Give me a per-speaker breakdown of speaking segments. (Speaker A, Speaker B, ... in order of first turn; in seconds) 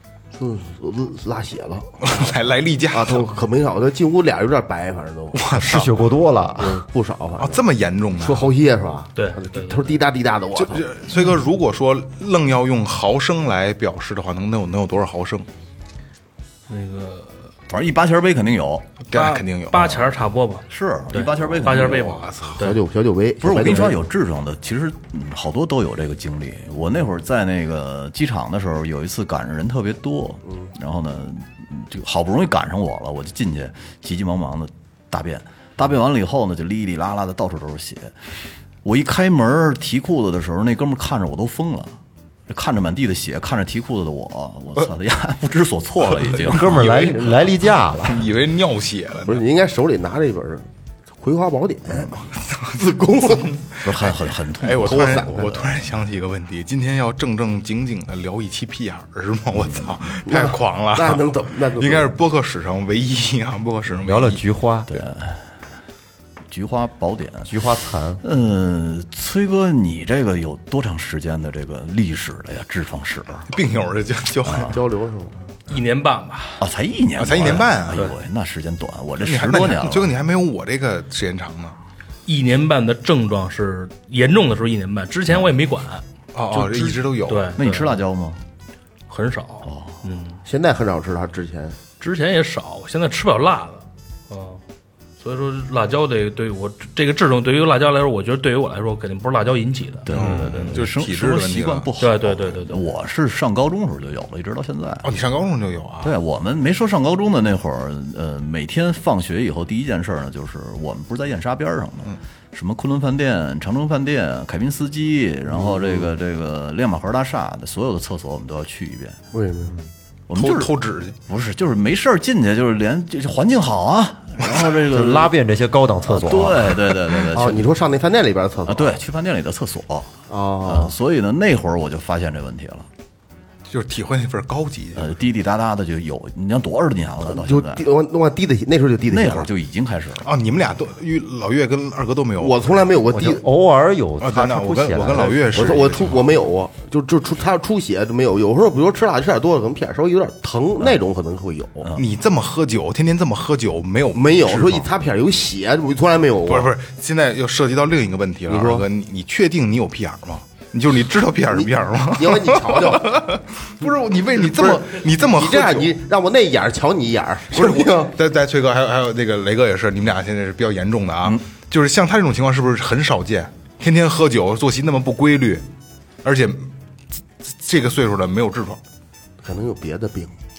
Speaker A: 0.3-2.3, 2.9-5.5, 6.6-7.6, 8.2-10.8, 22.6-24.0, 49.2-50.6, 51.2-53.6, 54.8-55.3, 60.2-62.1, 74.6-75.3, 90.4-91.8, 115.5-116.1, 119.3-119.8, 127.2-128.9, 130.3-130.9, 137.2-139.5, 142.4-143.4, 145.5-151.9, 154.1-156.7, 158.5-158.8, 161.5-163.3, 164.5-168.1, 179.4-180.3
Speaker B: 2.0-3.3, 5.3-5.9, 7.4-8.5, 10.5-15.5, 19.1-20.1, 21.9-22.6, 46.1-47.5, 48.0-49.4, 52.4-64.4, 73.5-74.8, 77.2-78.1, 79.2-81.8, 86.3-87.5, 100.1-101.9, 105.0-106.1, 120.3-121.2, 133.7-135.1, 140.2-142.8, 144.2-146.2, 151.9-154.8, 156.4-165.9, 167.5-175.6, 176.2-176.7, 177.4-178.8
Speaker C: 5.5-6.8, 46.4-48.2, 64.0-65.0, 67.5-68.2, 124.9-126.8, 143.1-145.8
Speaker D: 9.1-10.0, 16.7-17.4, 19.1-22.8, 75.7-76.6, 82.2-88.0, 89.1-90.4, 92.0-94.6, 95.2-100.7, 102.0-102.9
Speaker E: 17.7-18.9, 20.7-22.4, 23.4-38.1, 38.8-42.0, 42.5-47.1, 53.8-55.9, 59.5-60.0, 64.9-65.4, 66.5-67.5, 68.2-73.5, 74.4-74.7, 76.6-80.1, 87.6-88.4, 89.6-90.0, 100.0-105.1, 106.0-119.2, 120.3-125.3, 126.0-127.7, 128.6-132.9, 134.9-137.8, 139.1-140.3